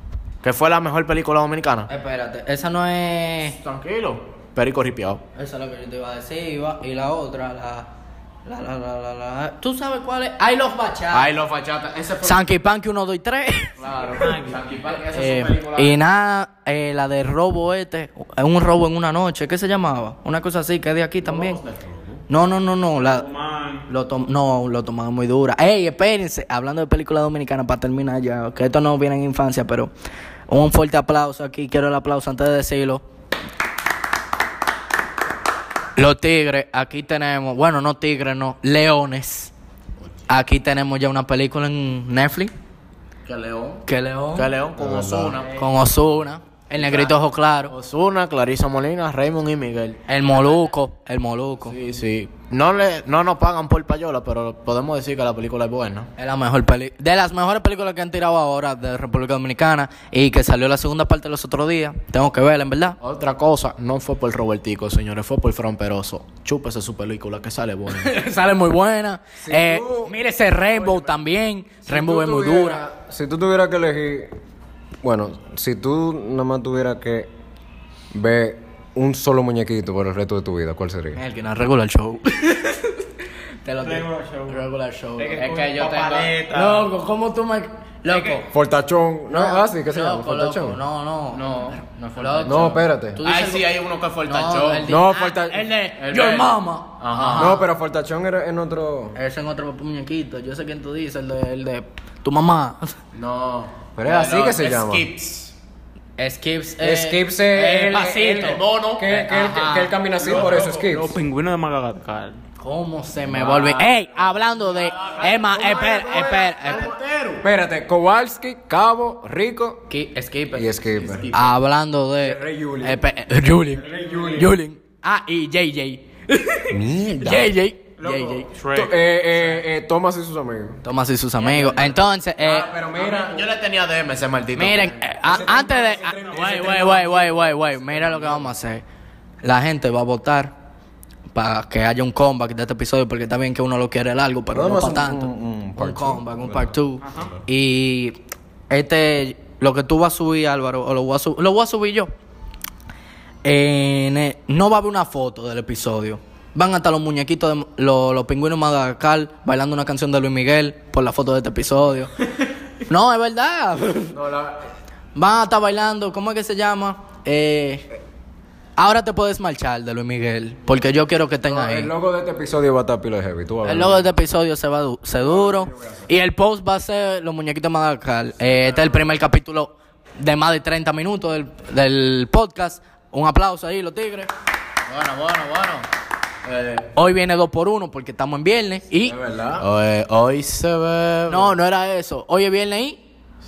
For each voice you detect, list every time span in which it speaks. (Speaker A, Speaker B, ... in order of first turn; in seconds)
Speaker A: 0.4-1.9, 3.6-5.2, 11.1-12.5, 13.8-16.0, 21.2-22.2, 43.2-45.5, 46.8-50.0, 51.6-56.1, 63.0-68.1, 85.4-86.3, 91.3-94.9, 96.0-97.5, 103.1-105.5, 108.3-110.7, 113.2-117.5, 120.9-121.5, 131.4-132.0, 132.9-135.1, 184.9-185.9, 186.4-186.9, 189.2-191.5
Speaker B: 1.9-3.6, 5.3-7.9, 8.4-11.3, 12.2-13.8, 15.0-21.6, 22.3-23.3, 23.9-29.9, 30.5-33.0, 36.0-39.5, 40.3-42.5, 43.9-44.5, 45.5-47.7, 50.1-51.8, 56.2-63.0, 67.9-72.8, 81.2-83.1, 83.7-85.8, 86.5-88.5, 89.3-97.7, 99.2-103.0, 106.2-110.0, 112.6-116.9, 119.9-120.7, 121.3-128.5, 130.8-132.7, 134.6-138.8, 139.4-140.5, 141.3-148.2, 148.7-152.1, 153.4-162.1, 162.9-164.2, 165.2-167.9, 168.8-171.9, 173.6-184.3, 186.9-189.2, 191.3-193.0
Speaker C: 14.1-14.6, 23.0-23.9, 83.8-84.6, 85.2-86.9, 88.1-88.4, 110.2-112.4, 123.8-124.6, 128.0-129.6, 135.8-136.7, 147.0-147.3
Speaker D: 44.8-45.4, 69.4-71.1, 71.9-74.3, 75.0-77.3, 78.1-81.2, 88.5-90.8, 92.4-93.2, 94.8-95.7, 97.4-99.2, 104.0-105.1, 106.8-111.2, 115.3-119.9, 120.5-121.3, 122.2-123.0, 123.8-124.6, 126.7-127.5, 128.7-130.8, 132.4-133.5, 135.2-138.5, 144.5-147.3, 164.1-164.7, 171.4-174.1, 175.2-176.1, 178.5-179.0, 189.2-189.6